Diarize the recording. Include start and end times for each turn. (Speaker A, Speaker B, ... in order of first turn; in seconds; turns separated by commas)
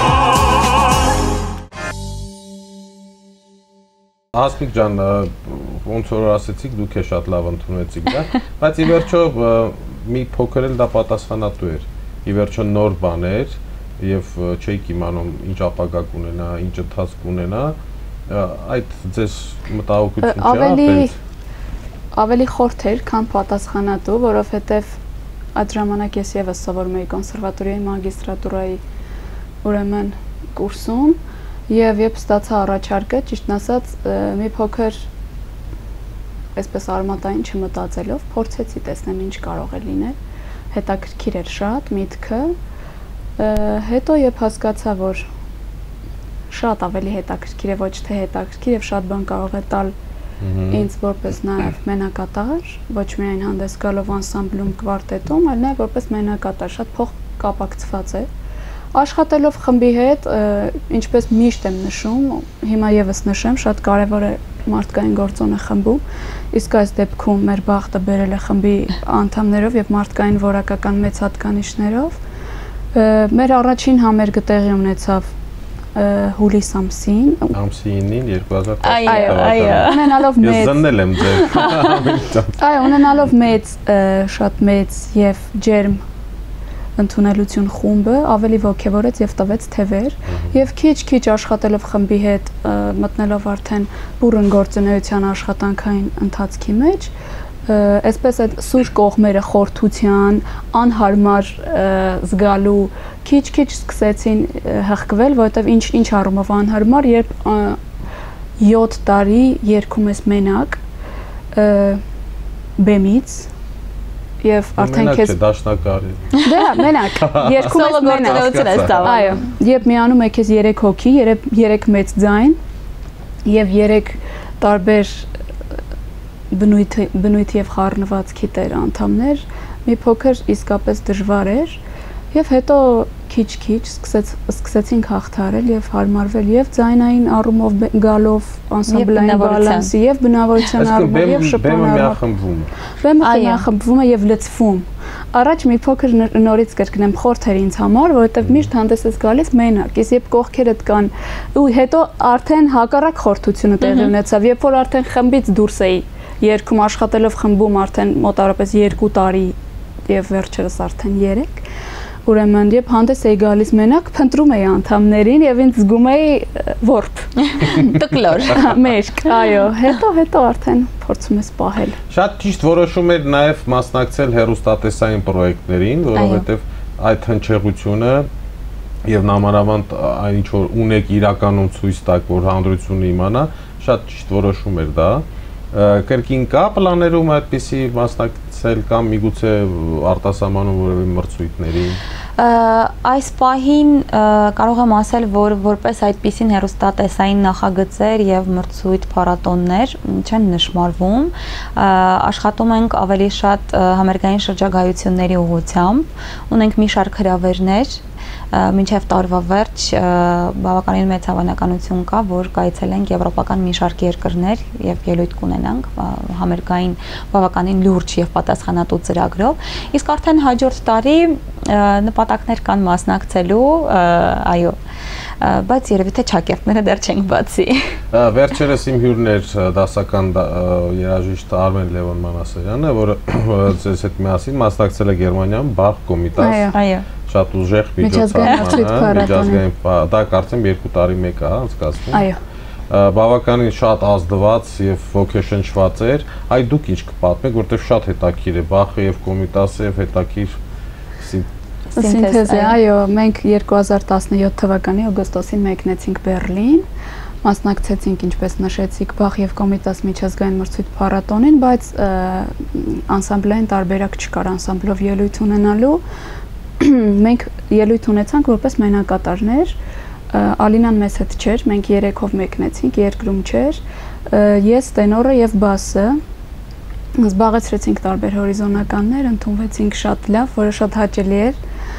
Speaker A: 4.3-17.8, Speaker A: 18.3-21.1, Speaker B: 20.2-21.1, Speaker B: 22.1-25.0, Speaker B: 25.6-28.8, Speaker B: 29.6-35.1, Speaker B: 36.5-40.2, Speaker B: 40.7-42.5, Speaker B: 43.4-45.3, Speaker B: 46.5-49.9, Speaker A: 50.4-50.9, Speaker B: 50.7-58.3, Speaker B: 58.9-72.2, Speaker B: 72.9-75.3, Speaker B: 75.9-77.6, Speaker A: 77.5-82.6, Speaker C: 78.8-80.3, Speaker B: 79.1-80.8, Speaker C: 81.5-81.8, Speaker B: 82.6-86.0, Speaker B: 87.0-97.1, Speaker A: 90.3-90.6, Speaker B: 97.7-107.8, Speaker B: 108.6-110.8, Speaker B: 111.5-112.0, Speaker B: 112.8-113.5, Speaker B: 114.4-115.3, Speaker A: 114.8-119.3, Speaker B: 116.4-122.6, Speaker C: 117.7-119.4, Speaker B: 123.4-125.3, Speaker B: 126.5-131.8, Speaker B: 132.3-142.2, Speaker C: 138.9-139.9, Speaker A: 140.8-142.7, Speaker B: 143.0-159.6, Speaker C: 143.2-143.7, Speaker C: 153.8-154.1, Speaker B: 160.1-161.6, Speaker B: 162.2-172.0, Speaker C: 167.4-168.7, Speaker A: 172.1-178.3, Speaker C: 176.2-176.4, Speaker A: 179.1-192.0, Speaker C: 192.4-208.0, Speaker C: 208.5-224.8, Speaker C: 225.4-228.0, Speaker A: 228.1-236.7, Speaker B: 236.4-236.8, Speaker C: 236.7-237.1, Speaker A: 237.2-242.3, Speaker B: 238.0-239.6, Speaker C: 238.4-239.2, Speaker B: 242.1-242.4, Speaker A: 242.9-250.6, Speaker A: 251.2-251.5, Speaker C: 251.9-252.8, Speaker B: 251.9-256.9, Speaker B: 257.4-266.0, Speaker B: 266.8-269.8, Speaker B: 270.3-276.2, Speaker B: 277.2-281.6